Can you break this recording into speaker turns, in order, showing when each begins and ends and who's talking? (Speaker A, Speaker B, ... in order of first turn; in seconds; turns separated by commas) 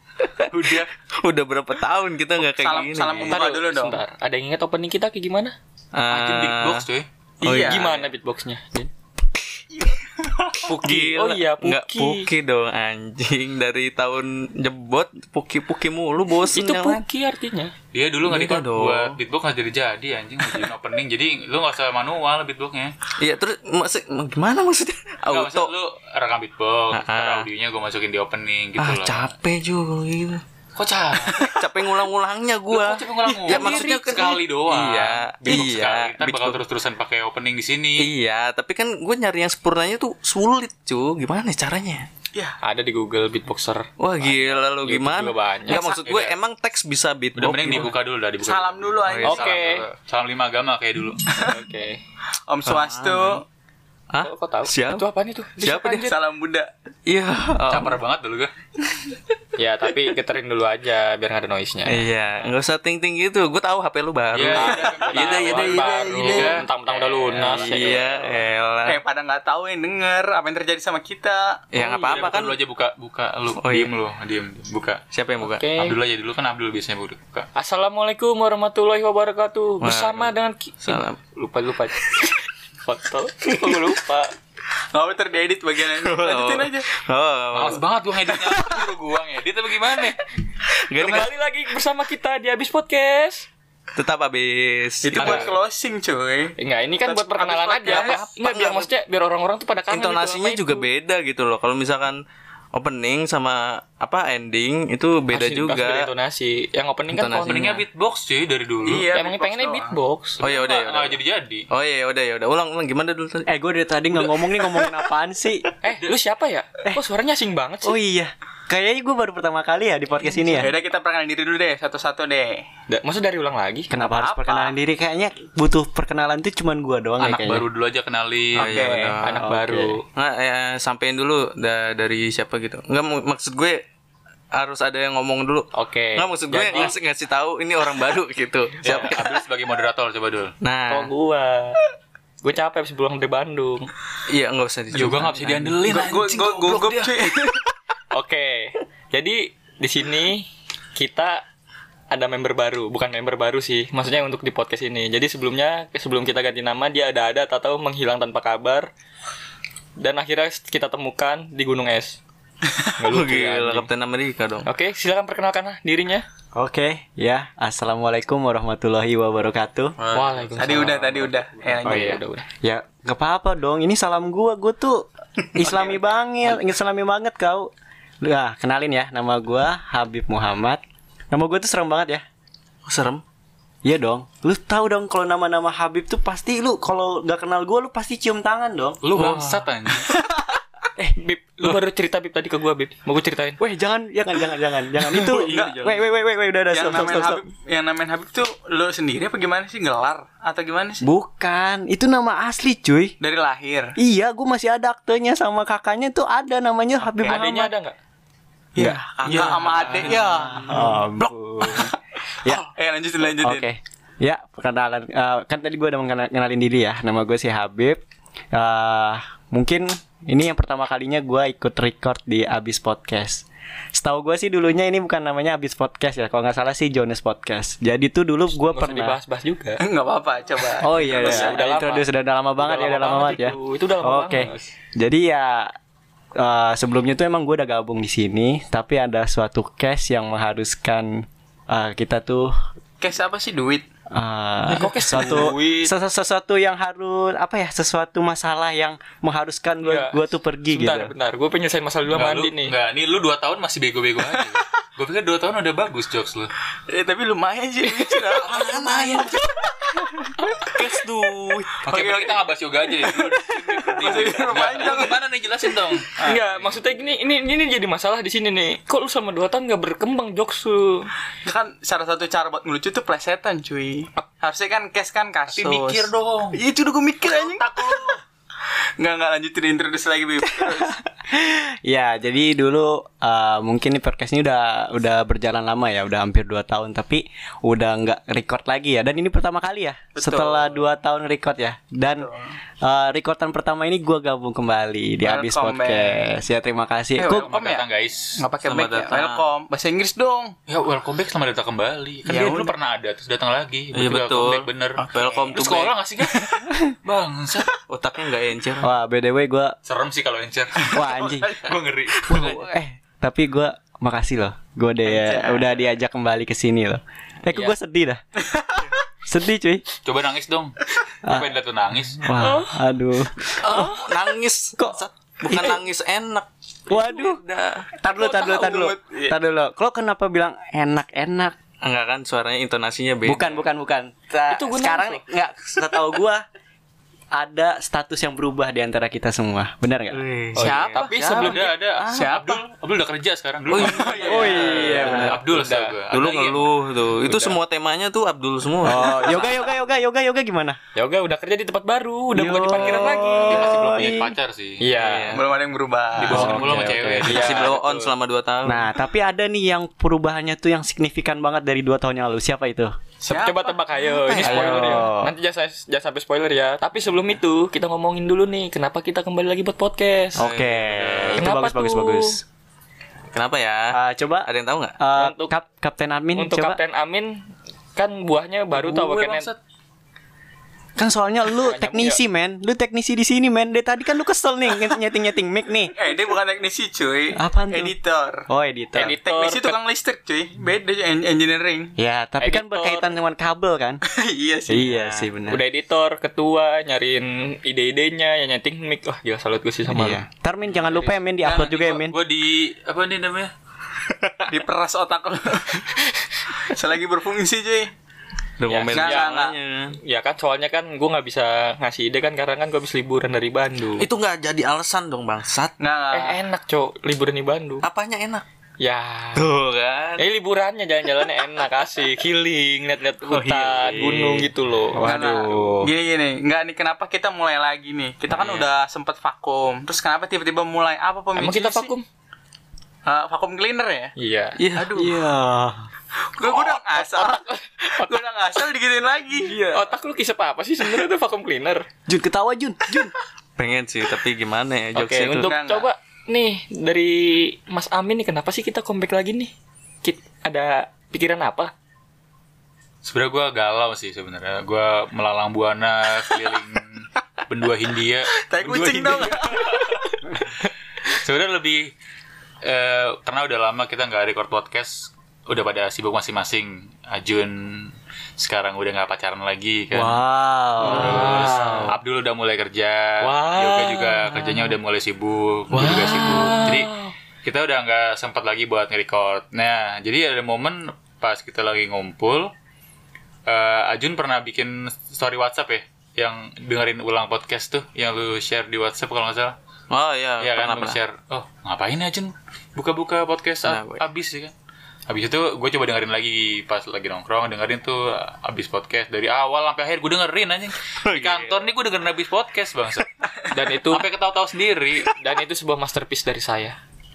Speaker A: 0.2-0.5, Speaker B: 0.5-0.9, Speaker A: 1.1-3.4, Speaker C: 2.4-4.0, Speaker D: 3.2-5.5, Speaker A: 5.9-6.8, Speaker B: 6.1-7.1, Speaker C: 7.4-8.0, Speaker A: 7.4-8.0, Speaker D: 7.5-8.9, Speaker D: 10.7-12.3, Speaker A: 10.7-17.0, Speaker D: 16.5-17.7, Speaker B: 17.9-22.9, Speaker A: 18.2-19.2, Speaker A: 23.2-25.7, Speaker B: 25.2-29.3, Speaker A: 26.9-27.5, Speaker A: 28.8-30.4, Speaker B: 30.7-31.4, Speaker C: 31.3-31.9, Speaker A: 31.3-36.6, Speaker B: 32.7-38.1, Speaker C: 33.3-33.7, Speaker A: 38.0-42.1, Speaker D: 42.6-43.9, Speaker A: 44.0-48.0, Speaker B: 44.2-46.4, Speaker D: 44.9-45.8, Speaker B: 47.3-51.2, Speaker C: 48.4-49.9, Speaker A: 49.0-49.5, Speaker D: 49.2-49.9, Speaker C: 51.3-51.6, Speaker D: 51.5-52.0, Speaker C: 52.3-53.4, Speaker A: 52.6-53.4, Speaker A: 54.1-55.1, Speaker D: 54.2-56.1, Speaker A: 55.6-56.1, Speaker C: 56.0-56.7, Speaker A: 57.0-58.0, Speaker B: 57.7-58.5, Speaker D: 59.5-62.1, Speaker A: 61.9-66.6, Speaker B: 64.3-67.8, Speaker D: 64.5-68.1, Speaker A: 67.3-69.0, Speaker C: 68.8-71.6, Speaker A: 71.7-72.6, Speaker D: 71.8-72.1, Speaker B: 71.9-75.0, Speaker A: 73.6-73.9, Speaker A: 75.1-75.7, Speaker D: 75.4-76.0, Speaker B: 75.8-77.5, Speaker D: 77.5-82.1, Speaker A: 79.8-81.2, Speaker D: 82.8-84.3, Speaker C: 84.7-86.9, Speaker A: 85.9-87.8, Speaker B: 87.5-90.2, Speaker A: 90.8-91.3, Speaker D: 90.9-93.5, Speaker A: 93.9-95.5, Speaker C: 95.0-98.3, Speaker D: 95.2-95.5, Speaker D: 96.6-100.8, Speaker A: 97.9-98.9, Speaker A: 99.9-102.2, Speaker A: 102.7-106.1, Speaker D: 105.3-107.7, Speaker A: 107.1-107.8, Speaker B: 107.4-109.1, Speaker C: 108.8-109.9, Speaker D: 109.1-110.4, Speaker B: 110.4-111.7, Speaker A: 110.4-111.2, Speaker A: 111.7-113.5, Speaker E: 113.5-115.7, Speaker D: 115.8-117.9, Speaker E: 117.8-120.7, Speaker C: 120.5-122.6, Speaker D: 122.9-123.9, Speaker E: 123.9-127.6, Speaker C: 123.9-124.7, Speaker B: 127.2-128.9, Speaker A: 128.6-129.4, Speaker C: 128.6-129.2, Speaker D: 128.8-130.0, Speaker E: 129.4-130.0, Speaker A: 130.1-133.8, Speaker A: 134.5-139.3, Speaker D: 135.7-136.9, Speaker B: 136.7-136.9, Speaker B: 138.8-140.5, Speaker A: 140.6-141.1, Speaker D: 140.9-141.8, Speaker D: 142.4-143.9, Speaker A: 144.3-145.8, Speaker B: 144.9-147.2, Speaker C: 145.8-147.6, Speaker D: 148.1-151.4, Speaker D: 152.1-158.9, Speaker D: 160.0-162.2, Speaker C: 162.7-162.9, Speaker D: 163.0-163.9, Speaker A: 163.1-164.7, Speaker D: 164.6-166.2, Speaker E: 166.5-169.9, Speaker A: 170.0-171.3, Speaker D: 170.1-171.1, Speaker C: 170.6-172.2, Speaker D: 171.7-172.4, Speaker E: 171.8-177.7, Speaker A: 175.6-176.6, Speaker E: 178.2-182.2, Speaker A: 182.8-183.2, Speaker E: 183.8-189.0, Speaker B: 189.0-190.1, Speaker A: 189.2-189.6, Speaker D: 191.2-193.6, Speaker E: 193.6-197.4, Speaker A: 195.2-195.9, Speaker C: 195.3-195.9, Speaker C: 196.7-201.0, Speaker E: 201.0-203.2, Speaker C: 203.2-203.9, Speaker E: 204.0-207.7, Speaker D: 207.1-207.9, Speaker C: 208.7-211.1, Speaker E: 208.8-209.4, Speaker A: 209.3-210.2, Speaker E: 210.2-212.6, Speaker C: 211.6-213.7, Speaker E: 213.4-218.0, Speaker E: 218.5-229.2, Speaker D: 228.5-229.8, Speaker C: 229.8-231.6, Speaker E: 230.8-235.7, Speaker D: 231.1-232.1, Speaker D: 232.6-234.6, Speaker E: 236.4-242.5, Speaker C: 243.0-243.8, Speaker E: 244.1-251.1, Speaker D: 244.7-245.9, Speaker D: 249.8-252.7, Speaker B: 252.1-256.5, Speaker C: 254.2-254.6, Speaker C: 256.9-260.1, Speaker A: 258.3-259.4, Speaker A: 260.5-261.8, Speaker C: 260.7-261.0, Speaker C: 261.6-265.2, Speaker B: 261.8-266.8, Speaker C: 265.9-266.4, Speaker D: 266.2-271.1, Speaker C: 271.4-277.9, Speaker B: 275.5-276.6, Speaker B: 277.2-278.2, Speaker C: 279.0-280.9, Speaker E: 281.2-292.3, Speaker C: 290.2-290.8, Speaker C: 292.1-292.5, Speaker E: 292.8-297.5, Speaker C: 295.2-296.3, Speaker C: 297.2-300.5, Speaker B: 297.3-298.3, Speaker A: 298.6-299.4, Speaker B: 300.7-307.7, Speaker C: 302.2-302.8, Speaker A: 303.9-305.9, Speaker C: 305.0-305.6, Speaker C: 306.2-306.6, Speaker A: 307.9-308.9, Speaker E: 308.8-309.8, Speaker B: 309.8-312.7, Speaker E: 310.9-311.6, Speaker C: 310.9-311.7, Speaker E: 312.2-318.2, Speaker C: 315.0-315.8, Speaker A: 317.4-317.7, Speaker C: 318.4-318.9, Speaker E: 319.2-319.8, Speaker B: 320.0-322.2, Speaker E: 322.2-324.1, Speaker D: 322.4-322.7, Speaker A: 323.6-327.9, Speaker E: 324.8-325.8, Speaker E: 326.9-327.4, Speaker E: 328.0-331.5, Speaker C: 328.1-329.4, Speaker A: 331.8-333.6, Speaker E: 333.2-336.4, Speaker D: 334.5-335.2, Speaker E: 337.3-340.2, Speaker A: 340.1-342.2, Speaker C: 340.5-342.6, Speaker D: 340.6-341.6, Speaker B: 341.3-344.0, Speaker A: 343.7-345.4, Speaker C: 343.8-344.8, Speaker D: 344.0-345.9, Speaker E: 344.2-345.4, Speaker B: 344.9-346.7, Speaker A: 346.1-349.4, Speaker D: 347.2-347.6, Speaker E: 348.8-350.8, Speaker D: 350.9-354.2, Speaker E: 352.3-354.3, Speaker B: 353.4-354.8, Speaker D: 354.8-355.3, Speaker A: 354.9-355.4, Speaker C: 355.3-356.4, Speaker B: 356.2-357.7, Speaker E: 356.3-357.6, Speaker A: 357.2-358.9, Speaker D: 357.2-358.1, Speaker E: 358.6-362.9, Speaker C: 363.2-363.7, Speaker D: 363.3-370.4, Speaker E: 364.2-365.3, Speaker A: 364.5-364.8, Speaker E: 370.3-372.4, Speaker A: 370.4-371.4, Speaker D: 371.4-372.4, Speaker A: 373.3-375.0, Speaker E: 373.9-376.8, Speaker D: 375.2-375.5, Speaker D: 376.3-379.5, Speaker B: 378.7-379.6, Speaker E: 381.0-385.9, Speaker D: 381.6-382.2, Speaker C: 385.9-388.4, Speaker E: 387.3-387.9, Speaker E: 388.5-389.2, Speaker D: 388.9-389.8, Speaker C: 389.1-391.9, Speaker E: 392.0-394.0, Speaker D: 392.4-393.1, Speaker C: 394.1-394.9, Speaker E: 394.7-395.6, Speaker A: 394.9-395.2, Speaker D: 395.5-400.2, Speaker E: 399.9-402.1, Speaker D: 400.8-401.1, Speaker C: 401.4-401.8, Speaker B: 401.6-403.5, Speaker A: 404.1-404.5, Speaker C: 404.5-406.0, Speaker C: 406.7-407.9, Speaker A: 408.6-409.9, Speaker D: 408.6-409.3, Speaker C: 408.9-409.6, Speaker D: 410.0-414.1, Speaker A: 414.0-415.7, Speaker C: 415.8-416.4, Speaker D: 416.1-417.9, Speaker A: 417.8-418.4, Speaker D: 418.8-419.5, Speaker A: 419.3-420.2, Speaker D: 420.2-425.0, Speaker A: 423.3-424.5, Speaker E: 424.9-425.9, Speaker C: 425.0-431.9, Speaker A: 428.4-428.6, Speaker D: 431.4-432.0, Speaker C: 433.1-434.1, Speaker D: 434.1-434.6, Speaker A: 434.6-435.0, Speaker C: 434.7-435.1, Speaker E: 434.9-435.9, Speaker C: 436.3-439.6, Speaker D: 436.6-438.2, Speaker E: 439.4-439.9, Speaker D: 439.7-441.8, Speaker E: 442.1-443.1, Speaker A: 443.6-445.5, Speaker B: 444.9-445.2, Speaker D: 445.2-449.5, Speaker C: 445.3-445.9, Speaker D: 450.0-451.7, Speaker B: 453.0-459.9, Speaker C: 458.5-459.8, Speaker B: 461.1-461.9, Speaker B: 462.6-470.2, Speaker E: 469.9-471.9, Speaker B: 470.8-476.9, Speaker A: 470.9-471.9, Speaker E: 473.3-474.0, Speaker A: 474.1-474.6, Speaker E: 475.7-476.8, Speaker A: 475.8-476.6, Speaker D: 476.2-477.1, Speaker B: 477.4-482.5, Speaker B: 483.5-489.6, Speaker A: 489.9-491.0, Speaker B: 490.4-494.5, Speaker A: 493.6-494.0, Speaker B: 495.1-503.3, Speaker A: 500.9-501.6, Speaker D: 503.5-504.1, Speaker B: 503.9-505.1, Speaker D: 505.2-506.8